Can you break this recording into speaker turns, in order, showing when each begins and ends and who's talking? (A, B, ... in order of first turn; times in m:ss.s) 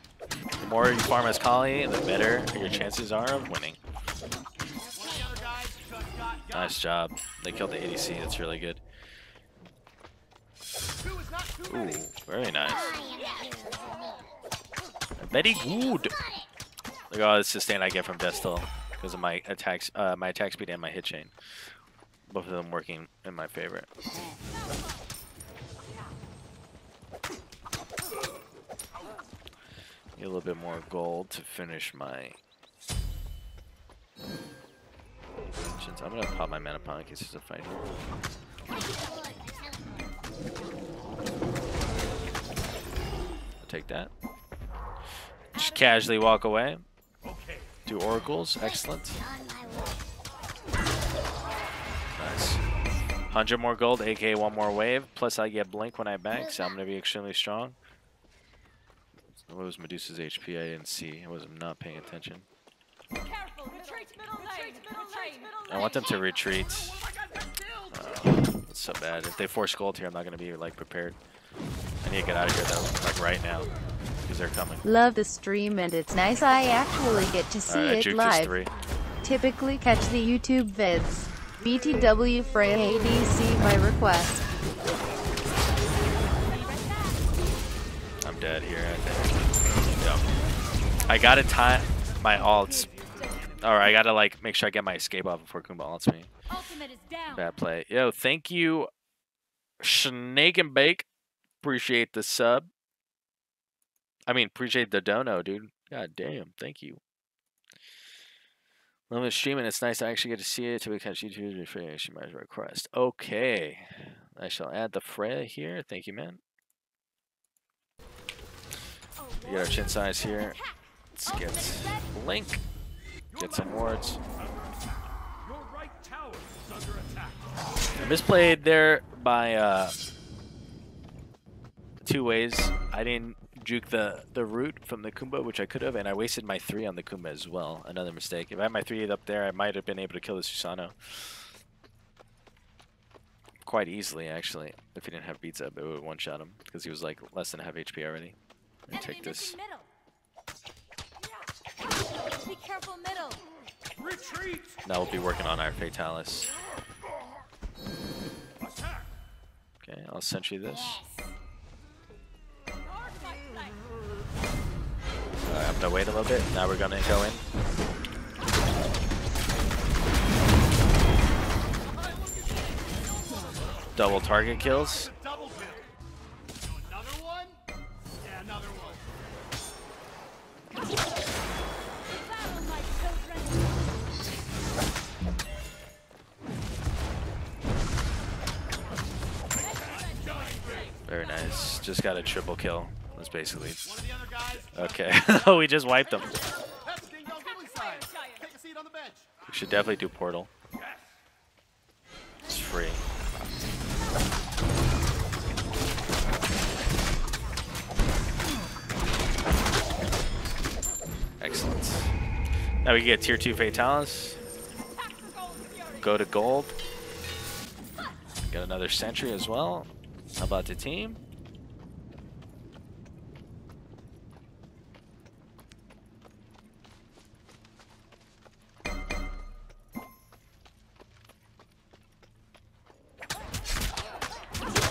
0:00.6-0:03.8 A
0:04.8-0:05.6 B
0:04.8-0:06.8 C
0:06.5-0:08.8 A
0:11.0-0:12.1 C
0:11.7-0:12.8 A
0:12.6-0:14.4 B
0:12.8-0:13.3 D
0:15.2-0:16.1 A
0:15.4-0:16.5 B
0:17.1-0:21.3 A
0:22.3-0:23.9 A
0:24.1-0:24.8 B
0:30.2-0:32.4 A
0:35.7-0:37.8 A
0:38.7-0:40.5 B
0:43.6-0:44.1 A
0:45.5-0:46.8 A
0:45.5-0:46.0 D
0:47.8-0:49.2 A
0:48.6-0:50.1 B
0:52.2-0:52.6 A
0:53.3-0:57.8 A
0:56.3-0:56.8 B
0:59.5-1:02.4 A
1:03.2-1:06.3 D
1:05.7-1:07.0 A
1:06.9-1:07.6 C
1:07.9-1:11.2 A
1:12.0-1:13.7 A
1:14.2-1:14.8 A
1:14.8-1:18.6 E
1:17.7-1:18.7 A
1:19.2-1:24.4 E
1:26.2-1:27.2 D
1:28.2-1:29.4 A
1:30.0-1:30.2 A
1:31.0-1:31.4 D
1:31.0-1:32.9 A
1:31.9-1:34.0 C
1:33.2-1:33.5 D
1:33.6-1:36.3 A
1:36.5-1:37.5 D
1:37.3-1:38.9 A
1:39.8-1:41.0 A
1:41.6-1:42.7 A
1:44.3-1:47.0 A
1:49.1-1:56.4 A
1:59.2-2:02.2 D
1:59.4-2:00.6 A
2:01.2-2:02.6 A
2:03.3-2:04.2 A
2:07.9-2:09.9 A
2:12.0-2:21.6 A
2:23.6-2:28.4 A
2:28.9-2:29.6 A
2:28.9-2:29.9 D
2:32.3-2:33.4 D
2:34.8-2:36.5 A
2:39.8-2:41.0 A
2:40.7-2:41.4 B
2:42.8-2:43.8 D
2:45.5-2:47.4 A
2:51.8-2:55.9 C
2:53.9-2:55.1 A
2:56.6-2:57.6 C
2:58.2-2:59.1 C
3:02.2-3:03.8 D
3:09.6-3:11.4 D
3:09.8-3:11.0 C
3:11.0-3:14.0 A
3:13.8-3:19.3 C
3:14.7-3:16.3 A
3:17.2-3:18.4 D
3:19.5-3:20.5 A
3:22.4-3:23.0 A
3:22.4-3:22.8 D
3:31.4-3:32.1 A
3:32.8-3:34.4 A
3:35.0-3:36.4 D
3:36.0-3:36.7 A
3:38.4-3:41.2 A